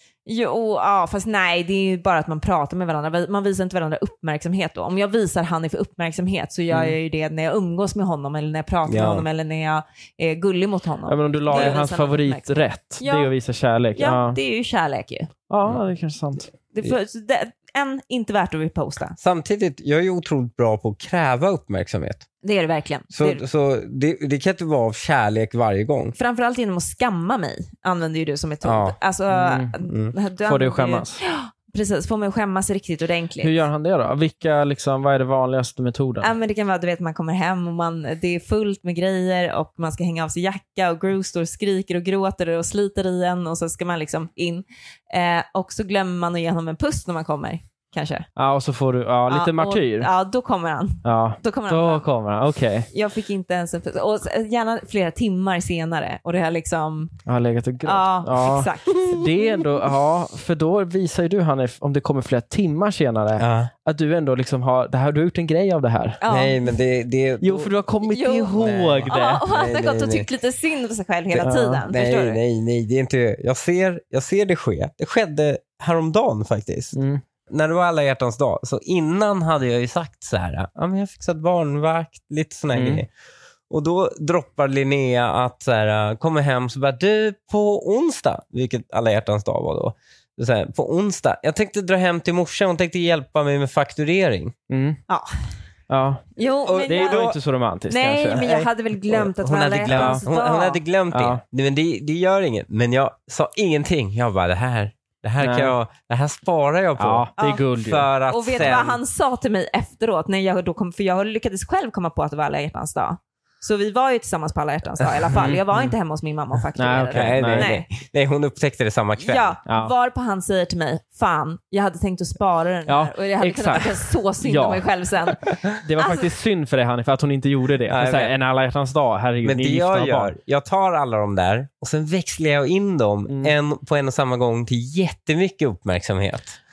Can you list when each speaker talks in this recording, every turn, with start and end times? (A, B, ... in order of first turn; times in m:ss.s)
0:00.3-0:13.3 A
0:08.9-0:09.2 B
0:11.1-0:14.4 C
0:11.5-0:11.8 B
0:14.0-0:15.3 A
0:15.5-0:16.5 C
0:16.7-0:19.2 A
0:19.2-0:22.3 B
0:22.4-0:23.4 A
0:23.1-0:26.2 B
0:26.2-0:33.6 A
0:28.6-0:29.0 B
0:29.3-0:29.8 C
0:30.5-0:31.2 C
0:33.4-0:36.3 C
0:36.2-0:48.3 A
0:48.4-0:50.1 C
0:49.3-0:52.1 A
0:51.0-0:52.9 C
0:52.9-0:57.2 A
0:57.3-1:06.2 C
0:57.8-0:59.3 A
1:03.4-1:03.7 B
1:06.2-1:06.6 A
1:06.3-1:07.7 B
1:07.4-1:09.4 C
1:08.0-1:12.4 A
1:08.6-1:10.3 B
1:11.4-1:11.8 C
1:11.9-1:17.0 B
1:17.0-1:17.2 C
1:17.5-1:23.1 B
1:22.7-1:23.0 C
1:23.7-1:34.5 B
1:34.7-1:35.0 C
1:35.9-1:36.3 C
1:36.4-1:37.3 A
1:36.7-1:37.4 B
1:36.9-1:38.5 C
1:37.9-1:40.8 A
1:38.4-1:49.0 B
1:39.9-1:40.2 C
1:41.1-1:41.4 C
1:45.4-1:45.7 C
1:47.0-1:48.1 C
1:47.4-1:47.7 A
1:48.3-1:57.9 A
1:55.4-1:55.6 C
1:56.8-1:57.7 C
1:57.1-1:59.5 B
1:59.2-2:06.3 A
1:59.7-1:59.9 C
2:02.9-2:04.9 C
2:05.8-2:10.3 C
2:07.9-2:08.3 B
2:09.4-2:16.6 B
2:13.3-2:13.5 C